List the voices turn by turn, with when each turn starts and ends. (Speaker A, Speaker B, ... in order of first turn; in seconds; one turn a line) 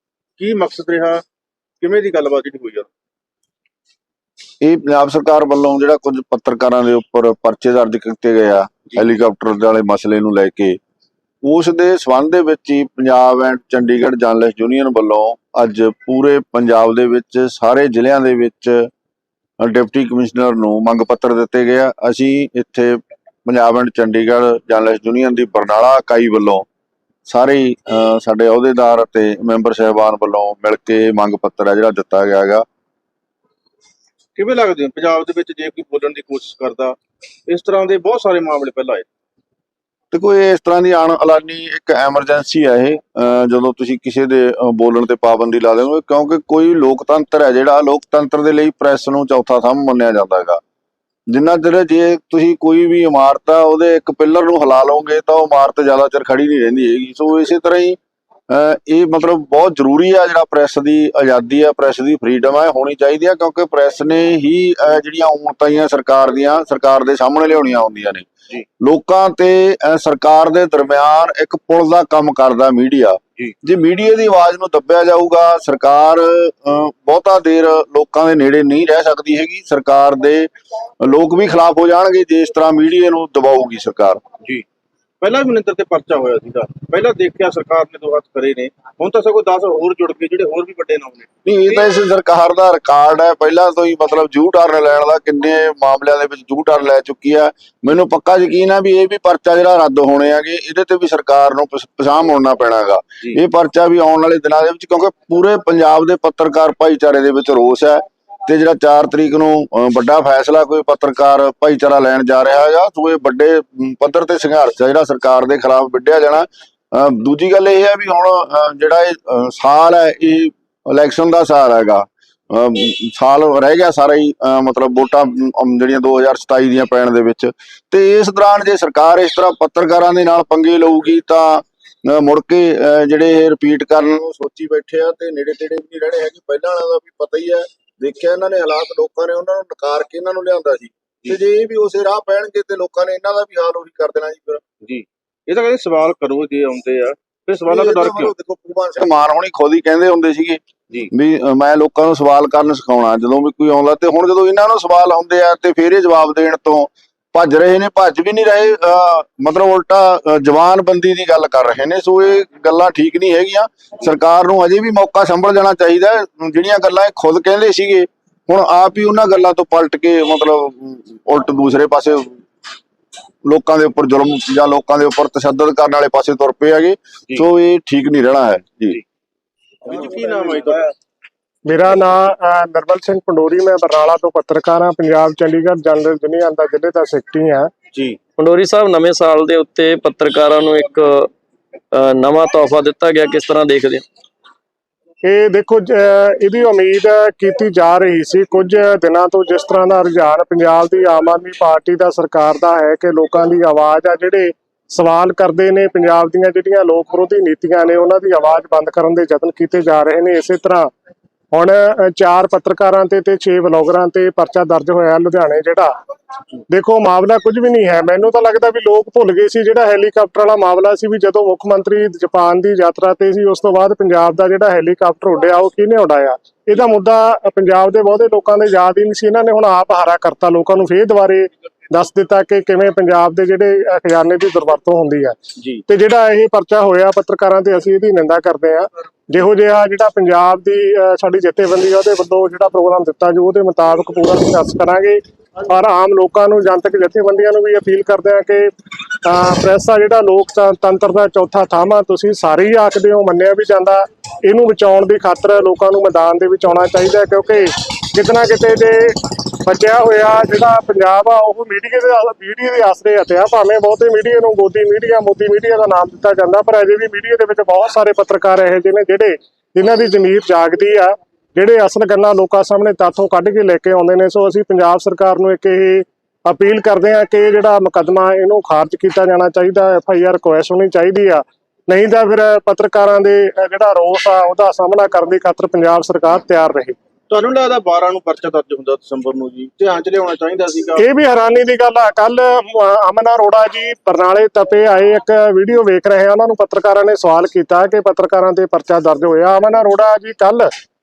Speaker A: 0.4-1.2
Speaker A: 1.8-2.9
Speaker B: 4.6-10.8
Speaker B: 11.4-18.9
Speaker B: 19.6-26.7
Speaker B: 27.3-32.6
Speaker A: 34.4-37.0
Speaker A: 37.5-39.1
Speaker B: 40.1-50.6
Speaker B: 51.3-58.0
Speaker B: 58.5-68.3
Speaker B: 68.8-84.2
Speaker A: 85.2-91.8
Speaker B: 91.5-144.6
Speaker A: 144.8-148.3
Speaker B: 147.7-172.4
Speaker B: 173.4-179.0
Speaker A: 179.8-180.9
Speaker C: 181.7-187.7
Speaker D: 188.4-191.3
Speaker D: 191.9-194.1
Speaker C: 195.2-210.9
Speaker C: 211.5-215.9
Speaker C: 216.7-235.4
Speaker A: 235.6-235.8
Speaker C: 235.9-286.9
Speaker A: 287.3-291.1
Speaker C: 291.0-300.7